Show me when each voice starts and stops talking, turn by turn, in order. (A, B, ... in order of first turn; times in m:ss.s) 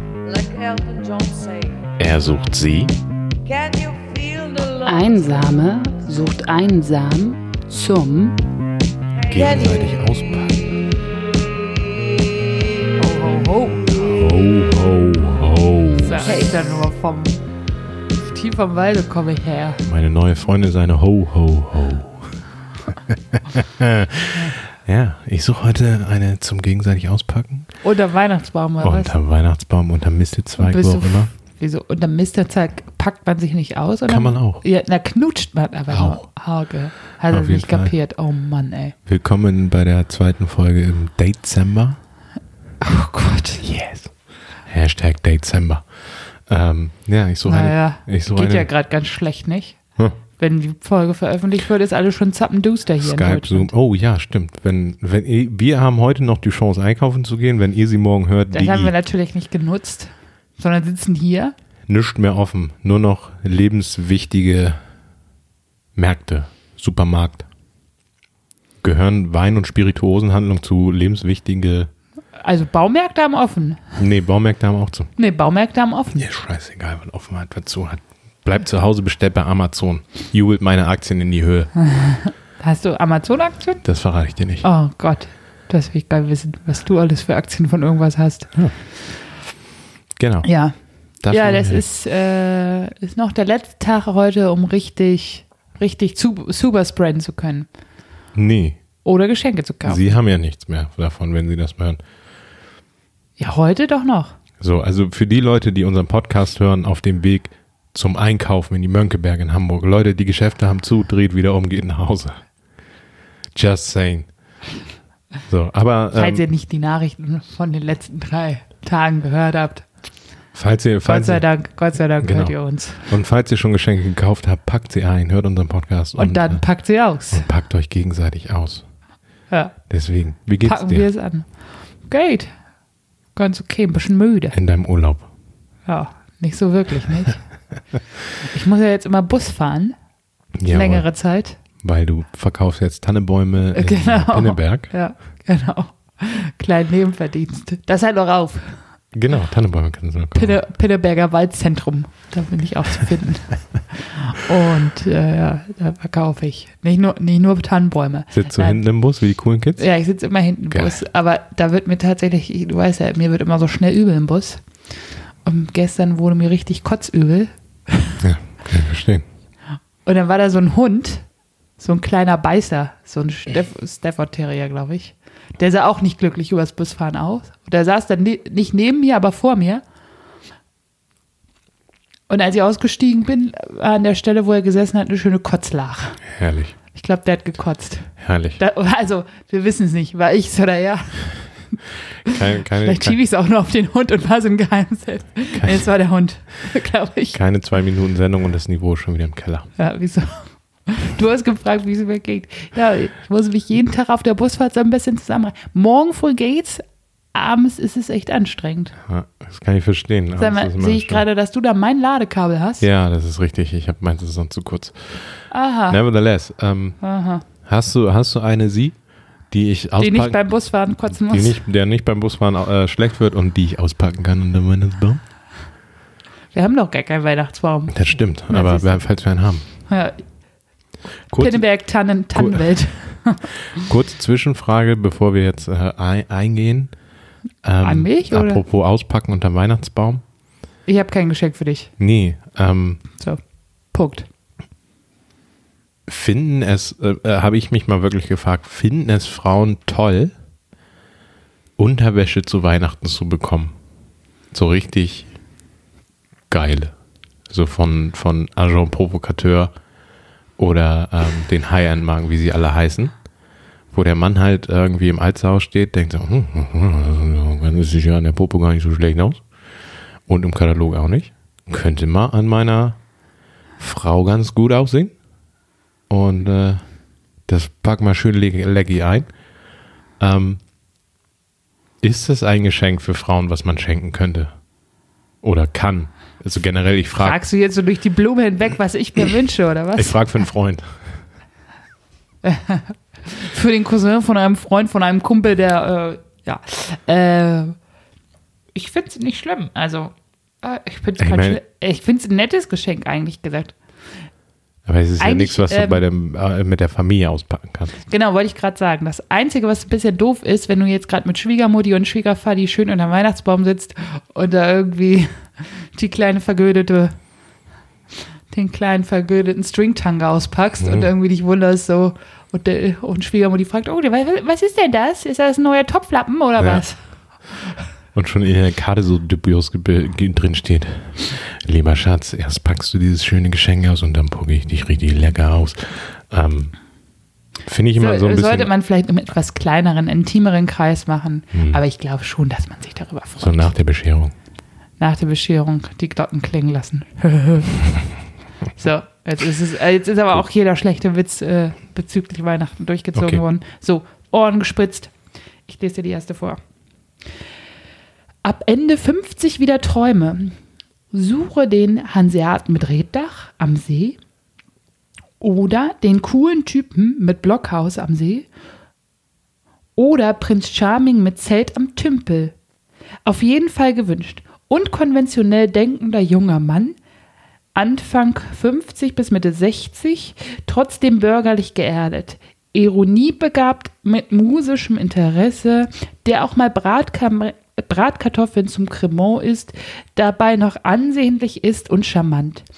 0:00.2-0:01.9 A
0:02.0-0:02.9 B
0:03.4-0:05.9 A
0:04.8-0:08.4 C
0:09.2-0:10.0 A
0:09.3-0:10.6 B
0:13.0-0:14.2 C
0:14.1-0:16.3 B
0:15.9-0:17.4 C
0:18.2-0:19.8 C
0:19.8-0:22.3 B
0:22.9-0:27.7 B
0:27.8-0:29.2 C
0:28.8-0:31.3 B
0:30.6-0:39.0 C
0:34.1-0:34.6 B
0:35.9-0:36.2 B
0:37.3-0:37.9 B
0:39.0-0:42.0 B
0:42.8-0:43.6 C
0:43.6-0:44.1 B
0:44.7-0:45.9 B
0:46.4-0:48.7 B
0:47.4-0:49.8 C
0:50.4-0:53.7 C
0:53.0-0:58.9 B
0:58.5-1:01.5 C
1:01.9-1:04.8 B
1:06.0-1:07.5 B
1:08.8-1:11.9 B
1:12.4-1:14.0 C
1:14.0-1:15.1 B
1:15.2-1:16.2 C
1:16.2-1:21.7 B
1:21.8-1:23.8 C
1:23.8-1:24.6 B
1:24.6-1:28.5 C
1:30.2-1:30.5 B
1:30.4-1:30.7 C
1:31.2-1:31.8 B
1:31.2-1:37.7 C
1:38.3-1:38.8 B
1:39.0-1:40.1 C
1:39.8-1:42.0 B
1:43.4-1:44.4 C
1:44.6-1:52.4 B
1:53.6-1:54.3 B
1:55.5-1:56.4 B
1:56.1-1:59.9 C
2:00.6-2:01.4 B
2:01.1-2:03.1 C
2:02.2-2:06.6 B
2:06.2-2:07.5 C
2:07.3-2:08.8 B
2:09.5-2:09.8 C
2:09.9-2:11.1 B
2:10.6-2:11.5 C
2:12.0-2:12.5 C
2:13.4-2:14.5 C
2:14.5-2:15.3 B
2:15.9-2:17.4 C
2:18.4-2:20.0 C
2:20.6-2:21.0 B
2:20.7-2:21.6 C
2:21.8-2:24.9 B
2:23.7-2:28.8 C
2:29.1-2:30.6 B
2:30.3-2:38.8 C
2:38.3-2:39.8 B
2:39.8-2:44.6 C
2:40.7-2:41.0 B
2:45.4-2:48.2 C
2:48.2-2:49.2 B
2:50.0-2:51.2 C
2:51.8-2:59.8 C
3:02.3-3:06.2 C
3:06.3-3:06.8 B
3:06.9-3:17.4 C
3:08.2-3:08.6 B
3:12.2-3:13.2 B
3:15.5-3:15.8 B
3:17.3-3:19.7 B
3:19.8-3:26.8 C
3:27.3-3:29.0 C
3:29.0-3:31.2 B
3:30.4-3:32.8 C
3:32.8-3:37.0 B
3:35.5-3:36.0 C
3:37.0-3:37.4 C
3:37.6-3:39.0 B
3:39.5-3:40.4 B
3:40.0-3:41.6 C
3:41.1-3:45.2 B
3:46.5-3:48.0 C
3:47.9-3:49.6 B
3:48.5-3:49.0 C
3:49.9-3:50.2 C
3:51.3-3:51.6 B
3:51.3-3:53.9 C
3:52.3-3:52.8 B
3:53.7-3:56.9 B
3:57.6-4:00.2 B
3:57.8-3:58.6 C
4:00.9-4:01.9 C
4:02.0-4:03.0 B
4:03.9-4:04.3 C
4:06.1-4:10.3 B
4:11.8-4:13.7 B
4:14.5-4:15.3 B
4:16.5-4:16.9 B
4:17.5-4:19.7 B
4:20.6-4:23.1 B
4:23.9-4:29.4 B
4:30.3-4:33.0 B
4:33.8-4:35.1 B
4:36.1-4:36.8 B
4:37.5-4:39.3 B
4:40.2-4:40.6 B
4:42.0-4:44.5 B
4:45.4-4:47.4 B
4:47.2-4:50.2 C
4:50.0-4:51.0 B
4:52.4-4:57.8 C
4:58.8-5:03.8 C
5:01.2-5:01.6 B
5:04.8-5:08.0 B
5:05.2-5:06.0 C
5:08.1-5:17.1 C
5:18.5-5:27.0 C
5:20.8-5:21.1 B
5:26.6-5:26.8 B
5:28.1-5:36.7 B
5:37.7-5:38.7 B
5:38.0-5:43.7 C
5:41.5-5:41.8 B
5:43.4-5:44.3 B
5:45.0-5:47.9 C
5:48.8-5:55.1 C
5:53.1-5:53.4 B
5:55.7-5:56.6 C
5:58.4-6:00.6 C
6:01.1-6:04.2 C
6:05.4-6:08.5 C
6:10.0-6:12.5 C
6:13.2-6:17.0 C
6:17.8-6:32.6 C